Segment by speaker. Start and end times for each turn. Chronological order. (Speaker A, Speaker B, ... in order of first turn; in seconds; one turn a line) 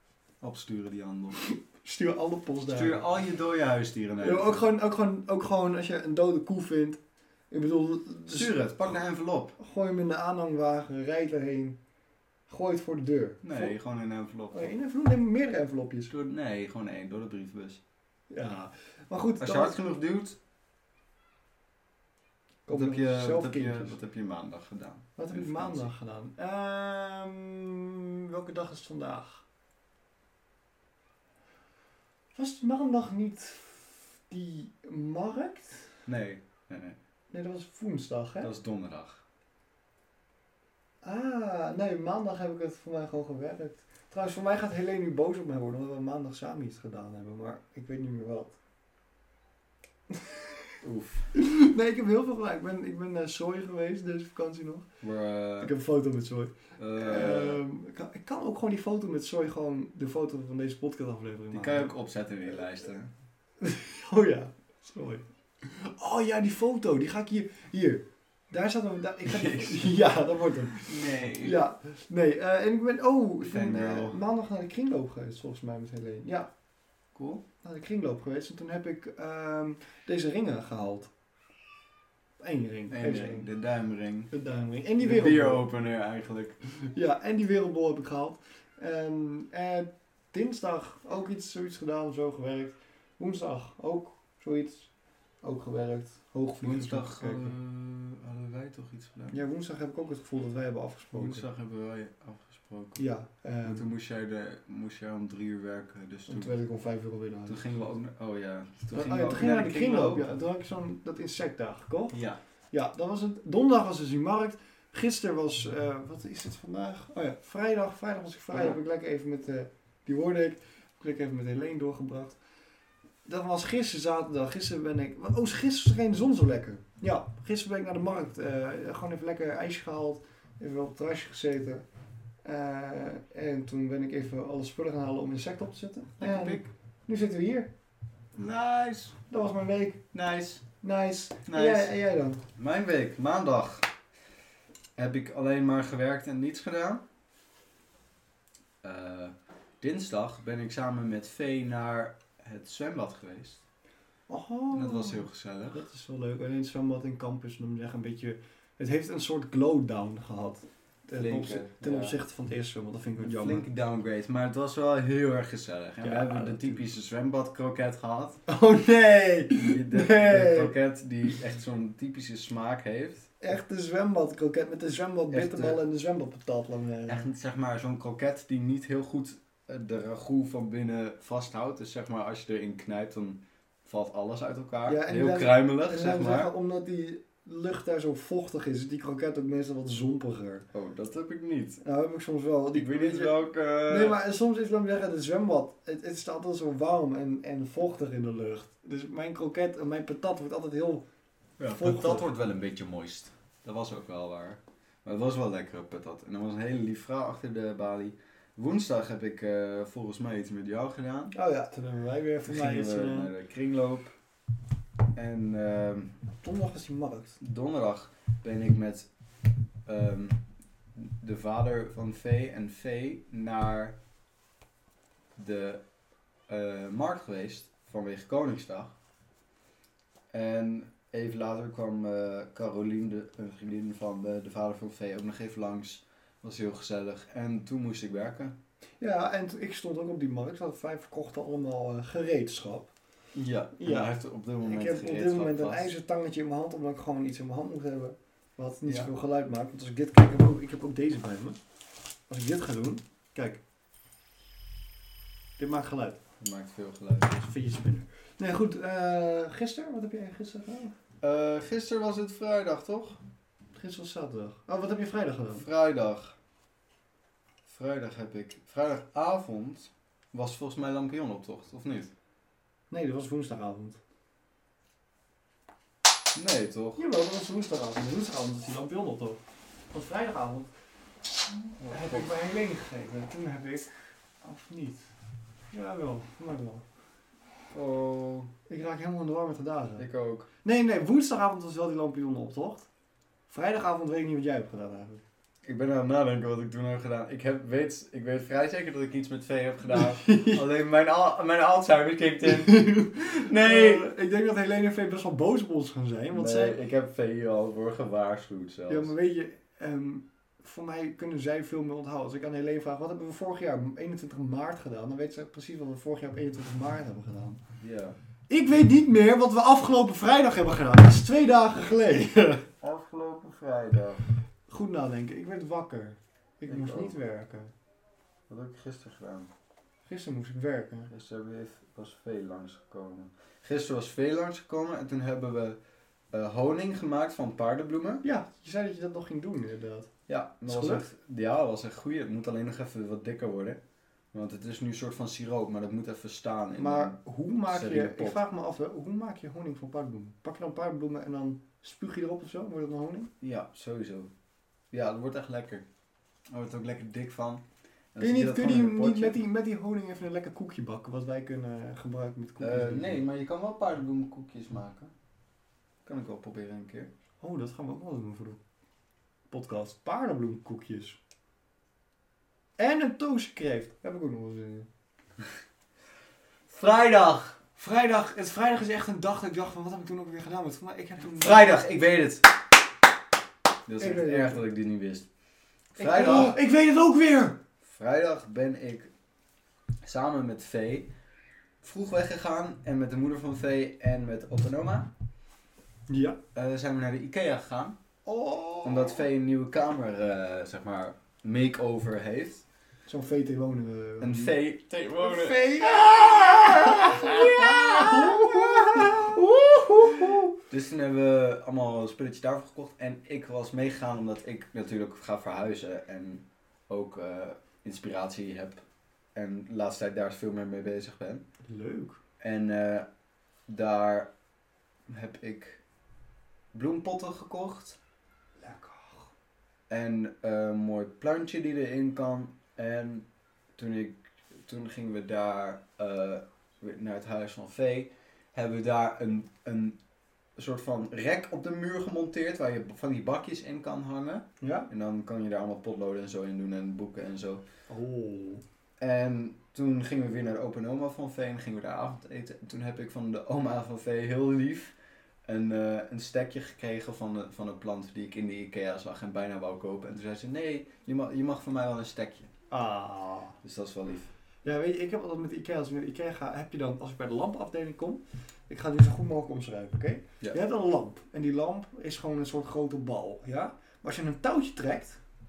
Speaker A: 0.4-1.4
Speaker B: 1.6-3.0
Speaker A: 2.7-4.6
Speaker B: 4.2-7.0
Speaker B: 7.5-9.0
Speaker A: 8.3-9.5
Speaker B: 9.6-11.8
Speaker B: 12.5-13.7
Speaker A: 13.4-14.7
Speaker B: 14.5-16.1
Speaker A: 16.1-17.8
Speaker B: 18.3-19.8
Speaker A: 19.4-20.4
Speaker B: 22.7-23.9
Speaker A: 22.7-25.9
Speaker B: 25.2-29.4
Speaker B: 32.3-36.0
Speaker A: 36.0-37.0
Speaker B: 37.3-38.5
Speaker A: 38.4-39.2
Speaker B: 41.0-48.5
Speaker B: 50.1-50.5
Speaker A: 50.8-51.3
Speaker B: 51.3-54.9
Speaker A: 55.0-55.7
Speaker B: 55.6-61.9
Speaker A: 56.8-57.6
Speaker A: 61.5-63.1
Speaker B: 63.6-76.5
Speaker A: 69.3-70.0
Speaker A: 70.8-71.6
Speaker A: 73.4-74.2
Speaker A: 77.1-77.4
Speaker B: 77.6-81.1
Speaker B: 82.4-83.5
Speaker A: 82.9-84.3
Speaker B: 84.3-85.7
Speaker A: 85.0-86.6
Speaker B: 86.8-94.9
Speaker B: 95.4-97.5
Speaker A: 96.6-99.3
Speaker B: 99.3-101.4
Speaker A: 101.1-103.0
Speaker B: 103.0-103.8
Speaker A: 103.6-106.5
Speaker B: 106.3-107.9
Speaker A: 107.5-110.3
Speaker B: 108.9-112.2
Speaker A: 112.1-112.4
Speaker B: 112.7-122.4
Speaker B: 123.2-131.8
Speaker B: 132.4-137.7
Speaker A: 136.2-136.7
Speaker A: 138.3-139.2
Speaker B: 139.3-140.0
Speaker A: 140.1-140.6
Speaker B: 140.8-142.4
Speaker A: 141.5-141.9
Speaker A: 142.6-143.9
Speaker A: 144.9-147.0
Speaker A: 148.8-153.6
Speaker B: 154.3-163.6
Speaker A: 154.7-155.8
Speaker A: 161.1-162.2
Speaker A: 163.2-168.4
Speaker B: 166.0-166.8
Speaker B: 168.5-170.7
Speaker A: 169.5-173.2
Speaker B: 173.4-177.3
Speaker A: 175.3-175.8
Speaker A: 177.1-186.5
Speaker B: 184.8-190.7
Speaker A: 190.7-191.8
Speaker B: 191.8-201.0
Speaker A: 192.7-194.2
Speaker A: 201.6-211.3
Speaker B: 201.7-202.2
Speaker B: 211.3-213.3
Speaker A: 212.4-214.1
Speaker A: 215.1-216.2
Speaker B: 216.4-217.4
Speaker A: 217.4-219.1
Speaker A: 219.8-220.4
Speaker A: 220.9-223.9
Speaker A: 225.3-225.8
Speaker A: 226.5-228.9
Speaker A: 230.3-238.6
Speaker B: 239.0-242.9
Speaker A: 243.3-245.9
Speaker B: 243.8-251.6
Speaker A: 248.8-249.1
Speaker B: 252.3-253.6
Speaker B: 255.6-256.2
Speaker A: 256.4-257.4
Speaker B: 257.4-260.9
Speaker A: 261.2-263.2
Speaker B: 263.7-265.6
Speaker A: 265.5-266.4
Speaker A: 267.6-272.1
Speaker B: 272.9-274.0
Speaker A: 276.3-277.0
Speaker B: 276.9-280.7
Speaker A: 281.8-282.3
Speaker B: 281.8-283.9
Speaker B: 284.4-285.1
Speaker B: 285.7-286.9
Speaker A: 287.7-288.5
Speaker B: 288.7-290.1
Speaker A: 290.0-290.5
Speaker B: 290.6-292.9
Speaker B: 293.5-295.2
Speaker A: 295.6-304.1
Speaker B: 299.9-300.6
Speaker B: 302.5-306.8
Speaker A: 306.3-309.1
Speaker B: 308.9-317.6
Speaker A: 317.8-318.2
Speaker B: 318.5-322.6
Speaker A: 322.8-324.2
Speaker B: 324.7-327.7
Speaker A: 326.7-327.1
Speaker A: 328.5-329.5
Speaker B: 330.1-331.1
Speaker A: 331.1-335.8
Speaker A: 336.3-338.2
Speaker B: 338.2-340.1
Speaker A: 340.3-343.8
Speaker B: 340.6-341.0
Speaker A: 344.3-347.1
Speaker B: 346.8-353.3
Speaker A: 347.7-348.4
Speaker A: 353.4-354.3
Speaker A: 354.9-355.9
Speaker A: 356.5-359.4
Speaker B: 358.2-363.2
Speaker A: 362.6-365.1
Speaker A: 366.1-367.1
Speaker B: 367.4-368.6
Speaker B: 369.5-371.2
Speaker B: 372.8-374.9
Speaker A: 376.7-377.6
Speaker B: 377.8-381.8
Speaker A: 381.2-382.4
Speaker A: 383.9-385.3
Speaker B: 384.0-384.6
Speaker A: 385.9-386.6
Speaker B: 386.0-387.6
Speaker A: 387.8-389.1
Speaker A: 390.0-391.1
Speaker A: 391.8-395.1
Speaker B: 396.1-396.4
Speaker A: 396.5-398.0
Speaker B: 398.2-399.2
Speaker A: 398.8-402.6
Speaker B: 403.1-404.6
Speaker A: 404.2-418.8
Speaker B: 405.2-410.5
Speaker A: 419.3-421.4
Speaker B: 421.6-422.2
Speaker A: 422.4-423.1
Speaker A: 423.7-424.3
Speaker A: 425.1-425.8
Speaker A: 426.7-428.0
Speaker B: 428.6-429.3
Speaker A: 429.9-440.0
Speaker A: 440.6-447.6
Speaker B: 444.6-444.9
Speaker B: 447.9-448.6
Speaker A: 449.0-454.9
Speaker A: 455.4-462.5
Speaker B: 462.7-463.6
Speaker A: 463.6-464.3
Speaker B: 464.6-475.2